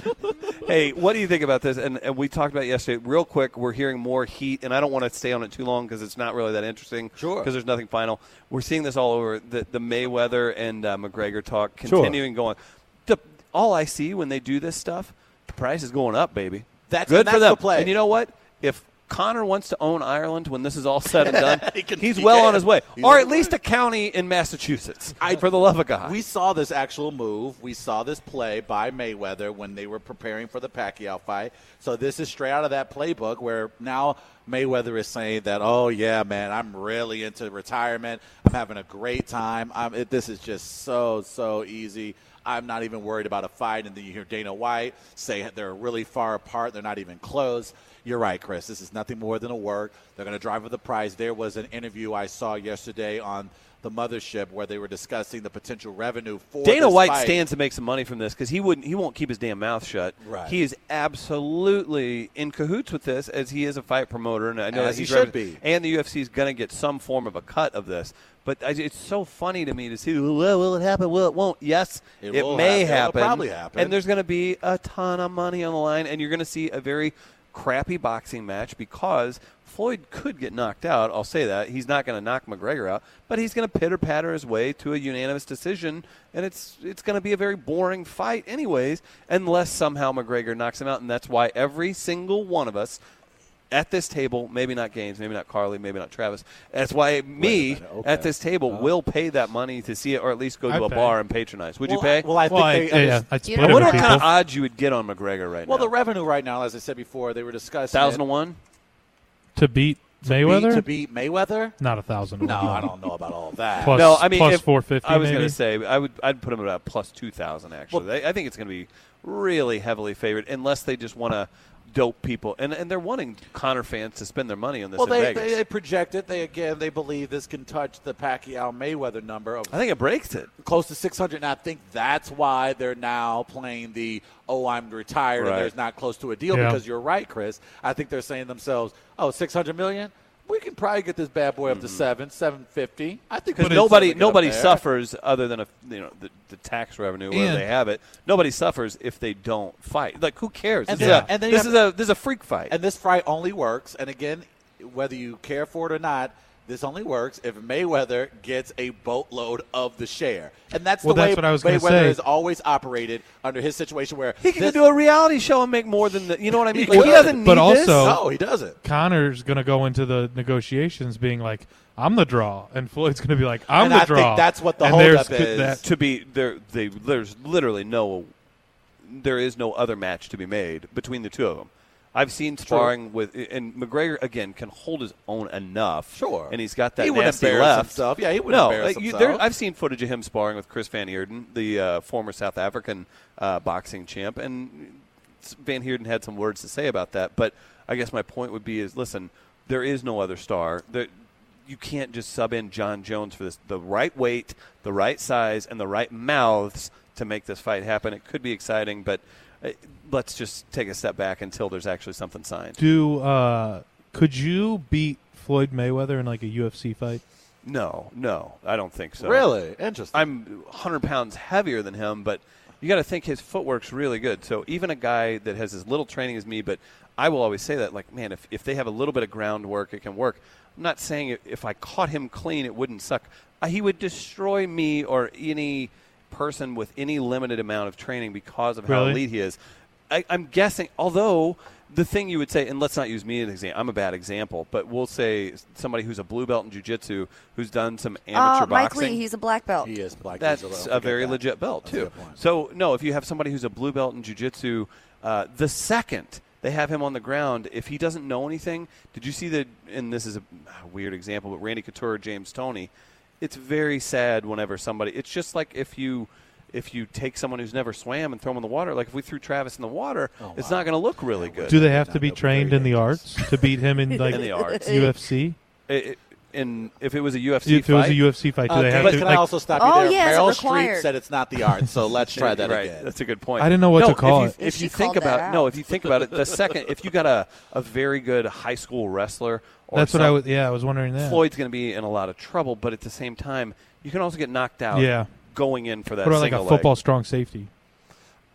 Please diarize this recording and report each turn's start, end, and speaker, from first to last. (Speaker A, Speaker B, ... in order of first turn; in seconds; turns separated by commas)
Speaker A: 0.3-26.2, Speaker B: 7.2-7.5, Speaker B: 11.8-12.2, Speaker B: 16.9-17.9, Speaker B: 21.1-23.6, Speaker B: 25.2-25.5, Speaker B: 26.0-57.4, Speaker A: 56.6-93.0, Speaker B: 60.2-60.6, Speaker B: 64.7-65.6, Speaker B: 72.2-74.0, Speaker A: 93.7-102.3, Speaker B: 97.4-98.9, Speaker C: 100.7-101.2, Speaker B: 101.9-103.3, Speaker C: 102.4-104.3, Speaker D: 103.4-104.2, Speaker A: 103.6-105.9, Speaker B: 105.7-108.2, Speaker A: 107.9-108.6, Speaker C: 109.5-110.9, Speaker B: 110.2-111.8, Speaker C: 111.8-113.0, Speaker B: 112.4-114.2, Speaker C: 113.8-115.6, Speaker A: 113.9-125.5, Speaker B: 125.0-129.8, Speaker A: 129.7-130.5, Speaker B: 130.6-144.8, Speaker A: 135.4-135.7, Speaker C: 136.5-136.8, Speaker A: 141.7-142.0, Speaker A: 143.6-152.8, Speaker C: 147.3-147.7, Speaker B: 150.9-151.8, Speaker C: 151.0-151.3, Speaker B: 152.7-164.8, Speaker C: 161.0-162.2, Speaker A: 164.4-168.2, Speaker B: 166.5-168.8, Speaker C: 166.9-168.2, Speaker C: 168.8-175.8, Speaker B: 173.8-175.8, Speaker A: 175.8-178.3, Speaker A: 179.0-201.1, Speaker B: 182.7-182.9, Speaker B: 186.1-189.4, Speaker A: 201.7-212.8, Speaker C: 212.8-217.2, Speaker A: 217.6-219.5, Speaker B: 219.2-220.3, Speaker A: 220.1-239.6, Speaker C: 238.9-239.2, Speaker A: 240.1-249.2, Speaker D: 248.3-249.9, Speaker B: 249.8-252.4, Speaker A: 250.4-262.9, Speaker A: 263.4-271.8, Speaker B: 270.4-273.3, Speaker C: 271.7-275.6, Speaker D: 274.1-275.1, Speaker A: 274.3-275.0, Speaker A: 275.9-278.2, Speaker C: 277.6-279.5, Speaker B: 278.7-283.1, Speaker A: 278.9-279.3, Speaker D: 279.8-281.1, Speaker A: 282.3-290.4, Speaker C: 283.6-284.6, Speaker D: 284.6-285.7, Speaker B: 286.3-286.6, Speaker C: 289.9-291.4, Speaker A: 291.2-296.9, Speaker C: 294.9-295.4, Speaker C: 296.2-297.7